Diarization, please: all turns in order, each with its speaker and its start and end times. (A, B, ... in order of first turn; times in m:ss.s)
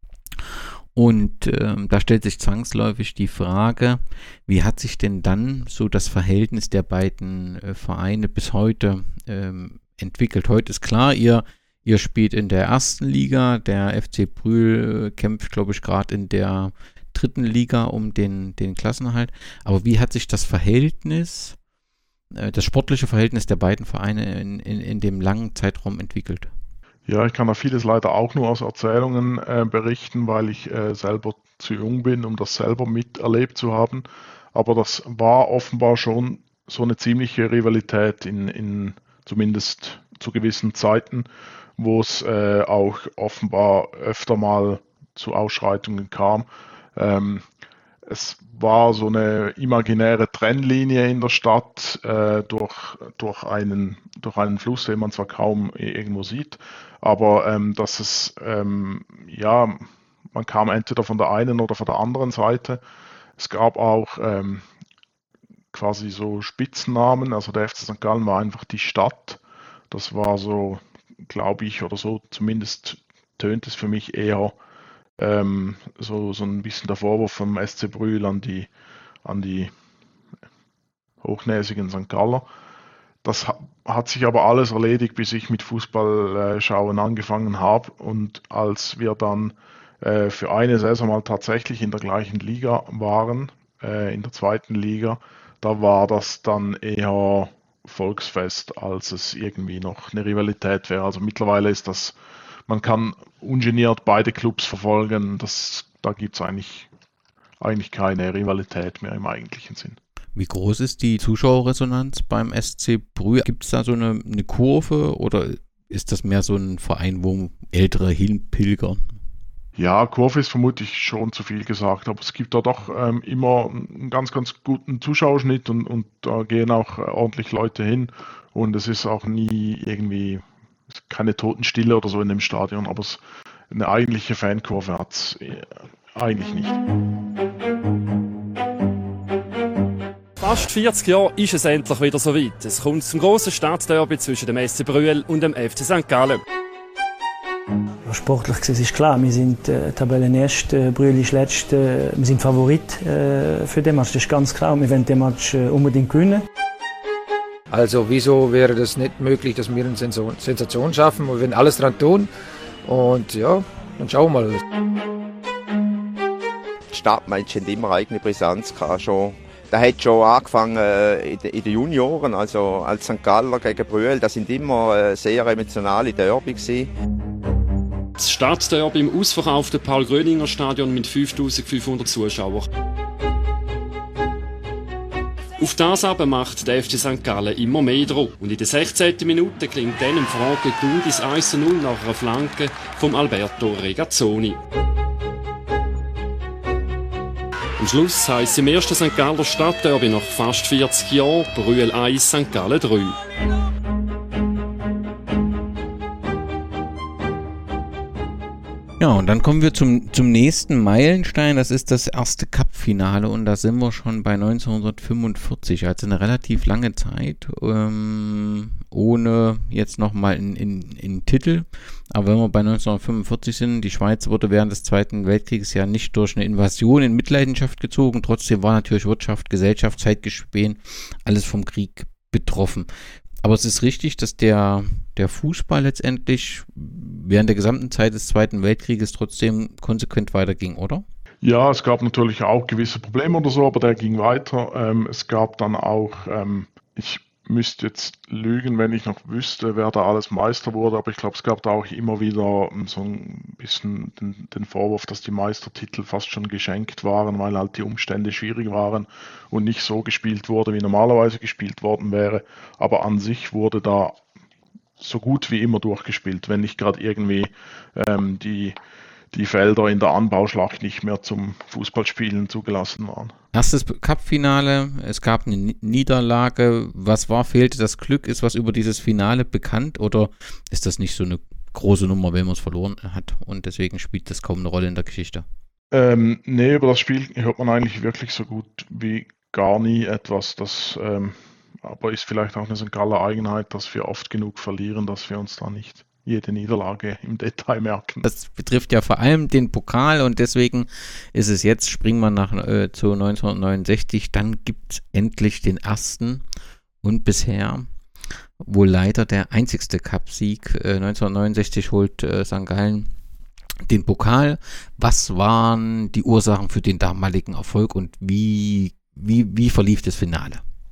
0:00.9-0:21.6 A
0:22.3-0:26.5 A
0:27.1-0:41.3 B
0:41.8-0:47.4 B
0:48.0-1:02.8 B
1:03.4-1:04.6 B
1:05.7-1:14.6 B
1:15.2-1:18.7 B
1:19.2-1:19.7 B
1:21.2-1:22.4 B
1:23.2-1:42.1 B
1:42.7-1:46.9 B
1:47.6-1:50.0 B
1:50.3-1:59.1 A
1:59.8-2:16.8 B
2:20.4-2:26.4 C
2:28.0-2:36.4 D
2:37.7-2:42.3 E
2:42.8-2:44.6 E
2:46.9-2:56.9 F
2:58.2-3:02.6 C
3:05.6-3:14.6 C
3:17.8-3:23.2 C
3:29.0-3:52.9 A
3:53.4-4:01.0 A
4:01.4-4:24.2 B
4:25.0-4:28.7 B
4:29.3-4:33.3 B
4:33.5-4:45.4 A
4:45.9-4:58.2 B
4:58.2-5:06.4 A
5:07.0-5:07.9 A
5:08.6-5:13.1 A
5:13.9-5:20.6 A